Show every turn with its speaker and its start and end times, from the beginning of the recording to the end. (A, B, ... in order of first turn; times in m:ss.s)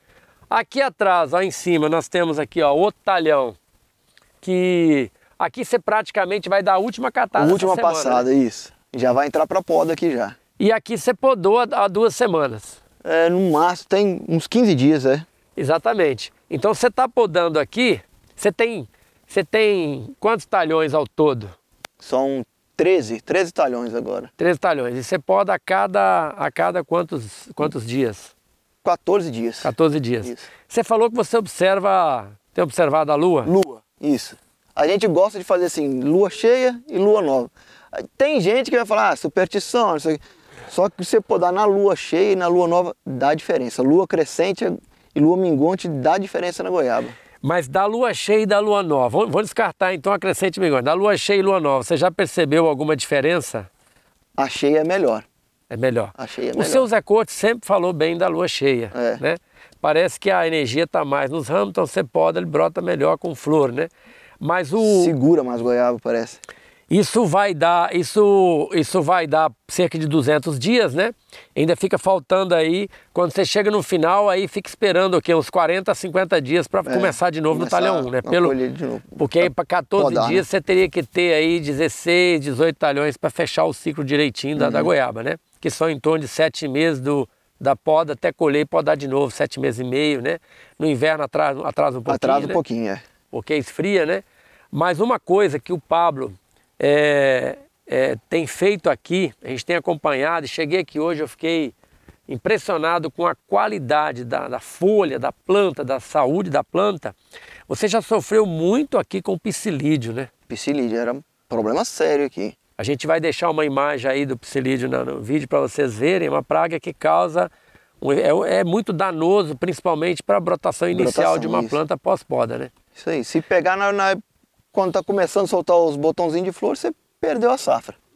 0:00.5-0:03.6 A
0:04.4-0:08.2 A
0:07.3-0:10.4 B
0:10.6-0:12.8 A
0:13.0-0:15.2 B
0:15.6-0:21.5 A
0:22.0-0:24.3 B
0:24.4-0:28.3 A
0:28.8-0:30.4 B
0:29.6-0:33.5 A
0:33.4-0:47.2 B
0:47.4-0:53.7 A
0:54.4-0:55.2 B
0:55.7-1:03.9 A
0:56.2-0:56.9 B
0:58.9-0:59.2 B
1:04.4-1:05.1 A
1:04.8-1:06.4 B
1:06.9-1:18.5 A
1:16.9-1:20.4 B
1:19.2-1:32.6 A
1:24.6-1:24.9 B
1:32.1-1:33.0 B
1:33.3-1:41.7 A
1:42.3-1:47.2 A
1:47.7-1:50.3 A
1:50.5-1:52.6 B
1:52.8-1:57.5 A
1:58.0-2:02.7 A
2:00.9-2:01.8 B
2:03.0-2:04.2 B
2:04.7-2:08.0 B